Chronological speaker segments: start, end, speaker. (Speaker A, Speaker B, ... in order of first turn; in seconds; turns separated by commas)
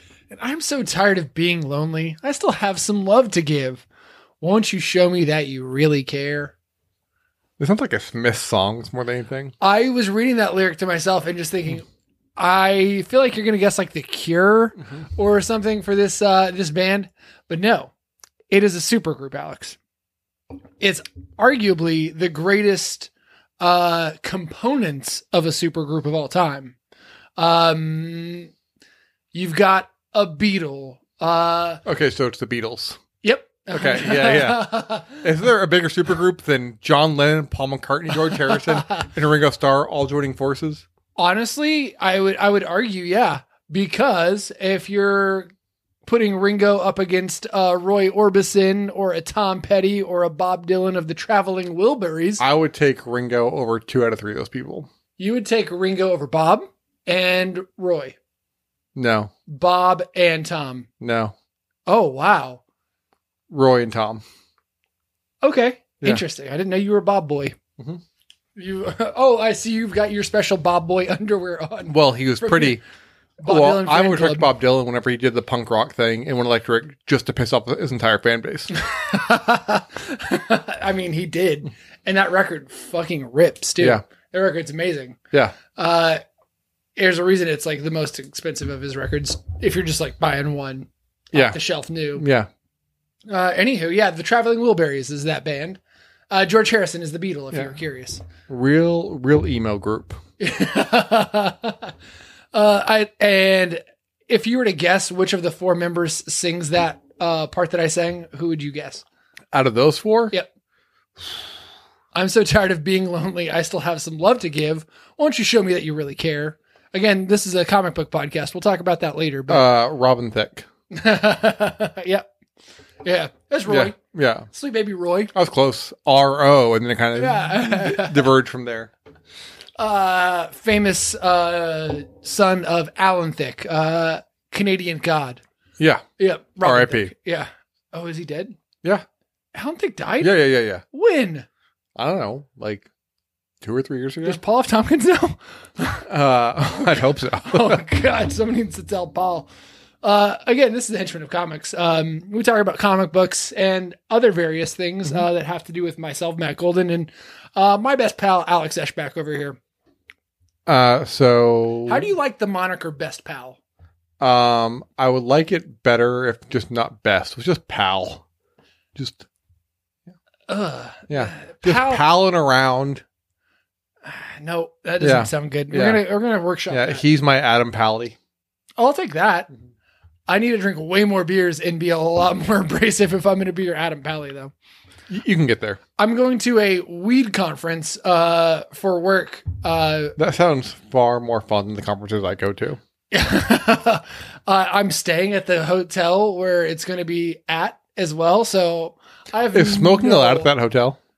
Speaker A: 0.3-3.8, Speaker A: 4.4-6.5, Speaker B: 7.6-9.5, Speaker A: 9.6-11.8, Speaker A: 12.4-17.9, Speaker A: 18.5-19.8, Speaker A: 20.8-26.8, Speaker A: 27.4-28.5, Speaker A: 29.3-31.8, Speaker B: 31.8-33.0, Speaker A: 33.2-35.2, Speaker B: 33.7-40.9, Speaker A: 38.3-39.0, Speaker A: 41.1-45.5, Speaker A: 46.0-52.4, Speaker B: 52.4-54.9, Speaker A: 55.2-58.2, Speaker B: 58.9-59.3, Speaker A: 59.5-60.9, Speaker B: 61.0-61.3, Speaker A: 61.9-62.6, Speaker B: 63.5-64.2, Speaker A: 65.4-67.6, Speaker A: 68.5-72.8, Speaker B: 71.9-72.8, Speaker A: 73.4-74.5, Speaker B: 73.4-78.7, Speaker A: 78.7-86.2, Speaker B: 85.3-85.6, Speaker A: 87.0-92.2, Speaker B: 92.2-92.5, Speaker A: 93.3-95.8, Speaker A: 96.3-98.2, Speaker B: 98.5-100.2, Speaker A: 100.4-101.9, Speaker A: 102.5-109.0, Speaker B: 109.5-110.3, Speaker A: 112.1-119.7, Speaker B: 119.5-120.7, Speaker A: 120.9-122.2, Speaker A: 123.0-124.0, Speaker B: 123.7-124.5, Speaker A: 124.5-125.3, Speaker B: 125.3-128.9, Speaker A: 127.1-128.3, Speaker A: 129.8-135.4, Speaker B: 135.8-136.0, Speaker A: 136.2-138.6, Speaker B: 136.6-137.1, Speaker A: 139.5-141.4, Speaker B: 140.2-140.8, Speaker B: 141.9-142.9, Speaker B: 143.6-144.4, Speaker A: 144.2-146.1, Speaker B: 146.1-147.8, Speaker A: 146.8-149.5, Speaker A: 150.0-159.6, Speaker B: 160.7-162.1, Speaker A: 161.9-163.6, Speaker B: 164.2-168.2, Speaker B: 168.9-169.2, Speaker A: 170.5-172.0, Speaker B: 171.1-173.0, Speaker A: 174.0-177.0, Speaker B: 175.0-176.0, Speaker B: 176.7-178.2, Speaker A: 178.8-179.5, Speaker A: 180.3-184.5, Speaker B: 185.1-185.8, Speaker A: 186.0-190.2, Speaker B: 190.2-192.8, Speaker A: 193.1-200.5, Speaker B: 199.5-201.0